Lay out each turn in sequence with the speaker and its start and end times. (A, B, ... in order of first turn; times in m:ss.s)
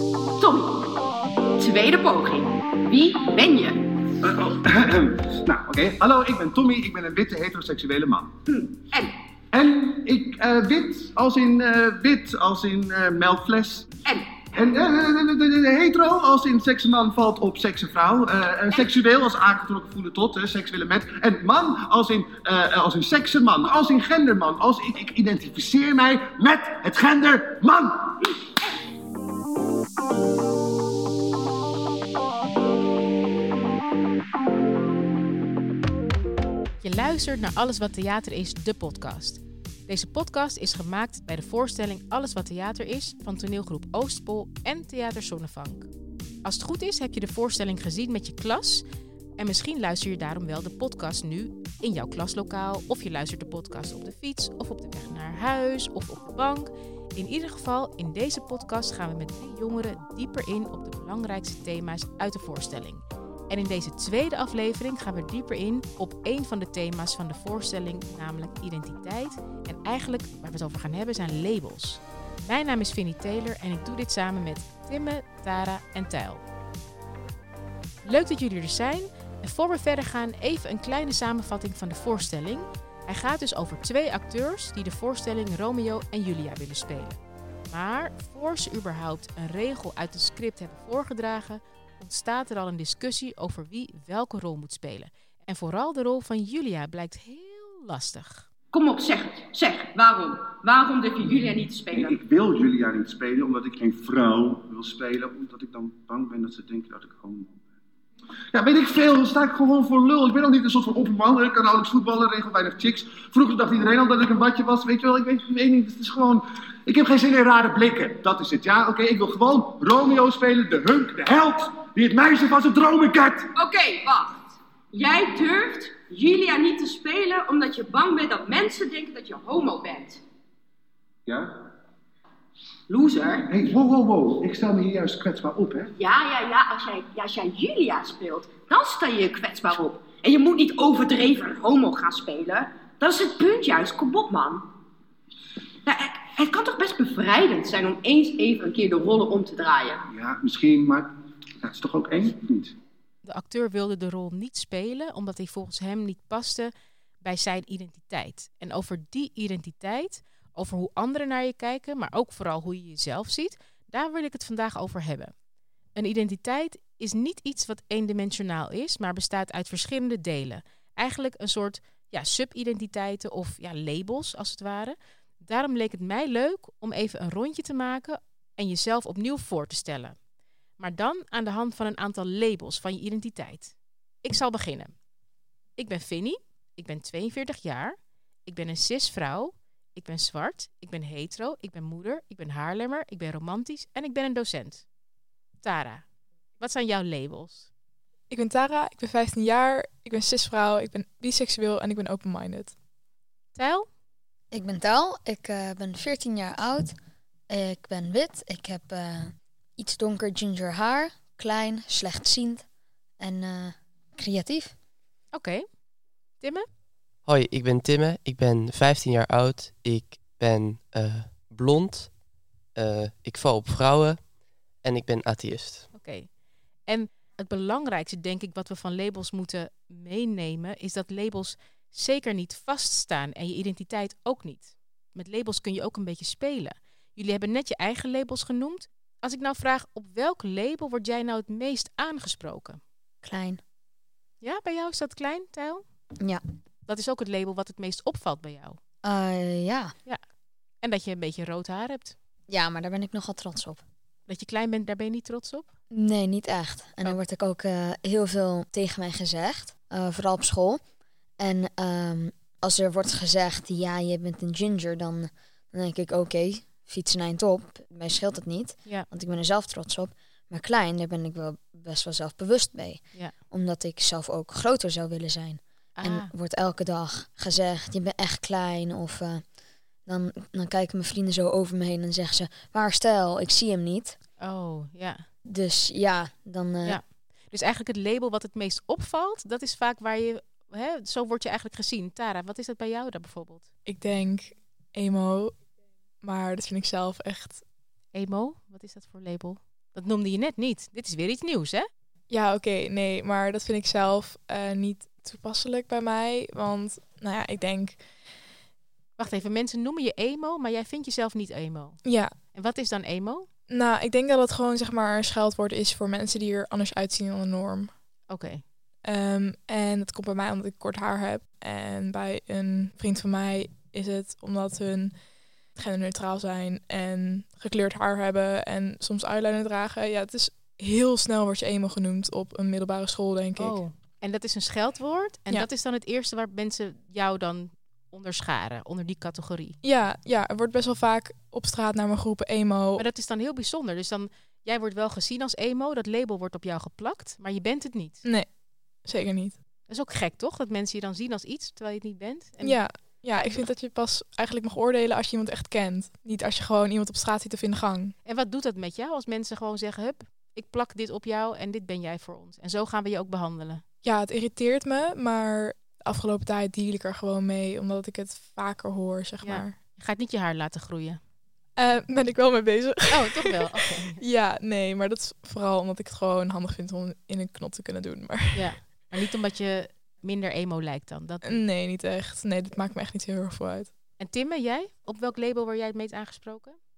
0:00.4-0:01.0 A
0:01.6-0:04.1 A
0:04.2-0:08.3 B
0:08.5-0:09.2 A
0:09.5-0:13.9 B
0:14.0-0:14.4 A
0:14.5-0:28.1 B
0:36.8-0:45.9 C
0:46.4-0:48.8 C
0:49.4-1:16.4 C
1:18.0-1:38.4 C
1:38.7-1:42.2 A
1:41.9-1:47.6 B
1:48.5-2:03.5 B
2:03.5-2:10.2 A
2:12.9-2:13.5 A
2:13.4-2:15.9 B
2:16.0-2:24.7 A
2:25.8-2:30.1 A
2:30.1-2:31.1 B
2:31.6-2:32.7 B
2:33.2-2:45.3 C
2:45.9-3:00.2 C
3:00.8-3:04.9 C
3:05.8-3:14.8 C
3:15.6-3:16.0 C
3:16.6-3:17.7 C
3:18.3-3:22.7 D
3:23.5-3:23.9 C
3:24.5-3:26.9 E
3:27.5-3:32.6 E
3:33.2-3:34.7 E
3:35.3-3:35.6 C
3:36.4-3:36.6 C
3:37.2-3:42.1 F
3:42.7-3:44.2 F
3:44.8-3:45.9 F
3:45.9-3:46.3 C
3:46.8-4:02.8 C
4:03.2-4:03.6 E
4:04.4-4:05.8 C
4:06.9-4:08.8 C
4:09.0-4:09.9 E
4:10.8-4:12.1 C
4:12.5-4:13.8 E
4:14.3-4:15.7 C
4:15.9-4:20.8 E
4:21.4-4:39.4 E
4:36.0-4:36.3 C
4:40.1-4:44.2 E
4:44.4-4:45.2 C
4:45.4-4:47.0 E
4:46.8-4:53.7 C
4:53.8-4:55.6 D
4:56.2-4:57.6 D
4:58.1-5:01.9 C
5:02.3-5:08.0 D
5:09.2-5:12.0 C
5:12.0-5:12.3 D
5:12.5-5:13.5 C
5:13.7-5:17.9 D
5:18.3-5:18.6 C
5:19.0-5:25.2 D
5:25.7-5:33.8 D
5:33.6-5:39.8 C
5:39.8-5:43.0 D
5:43.0-5:48.2 C
5:48.2-5:48.5 D
5:49.0-5:49.6 D
5:49.9-5:52.8 C
5:52.6-5:58.1 D
5:53.3-5:53.6 C
5:58.2-6:03.8 C
6:04.0-6:09.8 D
6:09.4-6:11.2 C
6:11.8-6:13.6 D
6:13.1-6:14.2 C
6:14.2-6:18.7 D
6:18.5-6:21.6 C
6:21.4-6:23.9 D
6:24.2-6:26.8 C